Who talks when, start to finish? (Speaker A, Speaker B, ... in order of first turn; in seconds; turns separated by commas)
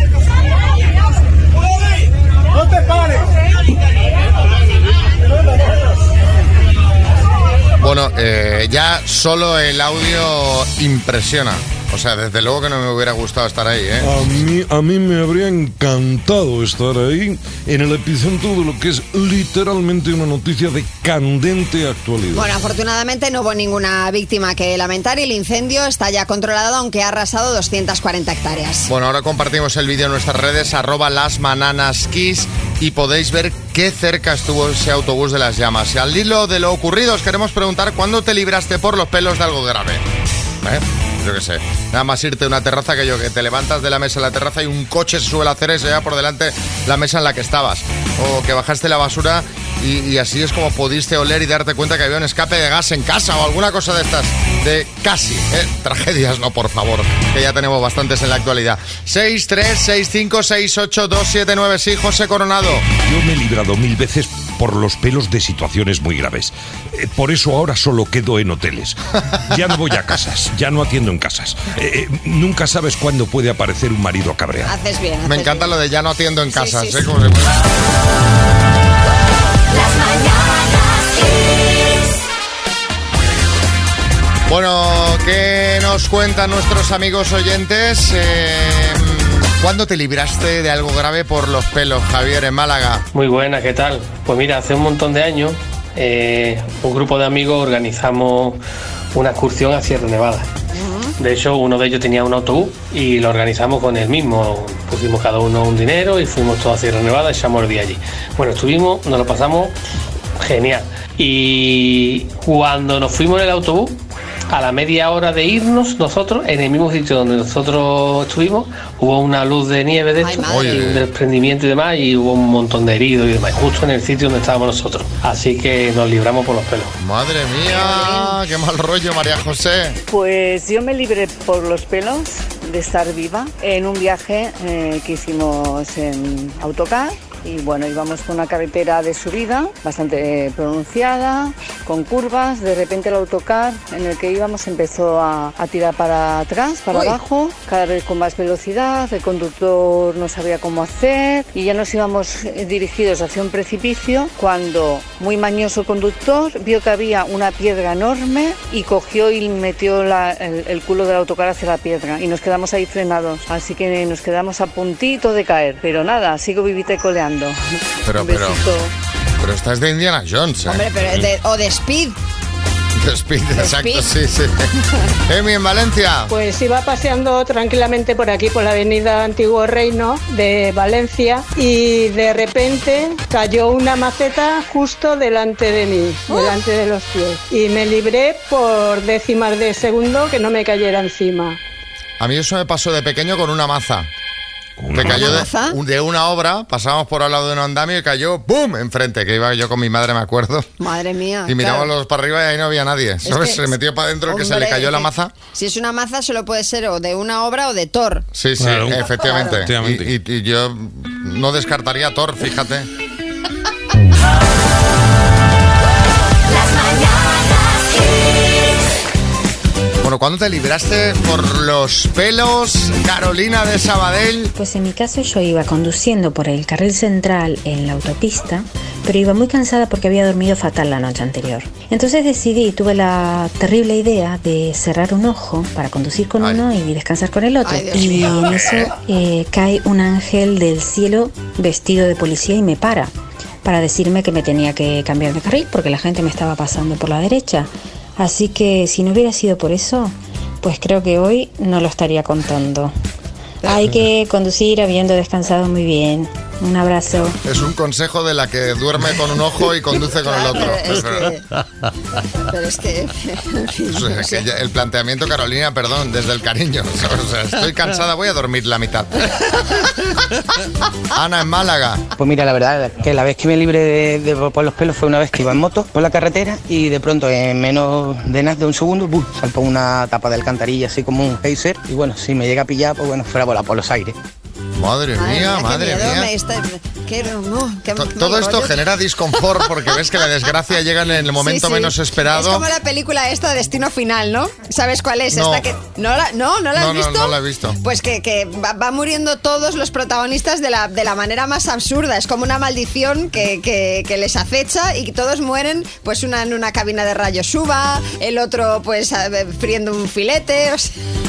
Speaker A: 7.8-14.1, Speaker B: 14.0-22.6, Speaker C: 22.3-28.9, Speaker A: 28.9-40.0, Speaker A: 40.6-62.9, Speaker D: 63.0-74.7, Speaker C: 74.7-75.7, Speaker A: 75.3-77.7, Speaker C: 76.5-77.0, Speaker A: 84.5-93.0, Speaker E: 93.1-98.6, Speaker E: 99.1-100.5, Speaker C: 100.7-101.1, Speaker E: 101.2-109.8, Speaker E: 110.4-127.0, Speaker C: 120.2-120.9, Speaker A: 120.5-121.1, Speaker A: 127.0-130.0, Speaker C: 127.7-128.3, Speaker F: 130.1-168.9, Speaker C: 146.9-147.2, Speaker A: 168.1-168.6, Speaker A: 169.4-170.8, Speaker C: 170.7-172.2, Speaker A: 173.0-174.7, Speaker C: 173.6-174.1, Speaker A: 175.3-176.3, Speaker G: 176.3-191.6, Speaker C: 186.3-186.5, Speaker A: 192.2-194.1, Speaker D: 194.8-195.4, Speaker A: 194.9-200.7, Speaker C: 195.0-195.8, Speaker C: 200.8-201.9, Speaker A: 201.5-205.3, Speaker C: 203.3-203.7, Speaker C: 204.3-208.3, Speaker A: 208.3-212.9, Speaker D: 208.6-210.1, Speaker C: 209.2-209.6, Speaker A: 220.0-224.5, Speaker H: 224.6-243.1, Speaker C: 237.6-238.9, Speaker H: 243.6-252.9, Speaker H: 253.6-257.4, Speaker A: 257.4-261.4, Speaker C: 260.2-261.4, Speaker C: 262.5-264.4, Speaker A: 263.9-269.5, Speaker A: 271.1-272.0, Speaker I: 272.2-284.1, Speaker A: 284.8-286.3, Speaker C: 285.2-288.8, Speaker A: 288.0-292.6, Speaker C: 291.4-310.9, Speaker A: 295.3-295.7, Speaker A: 296.8-297.8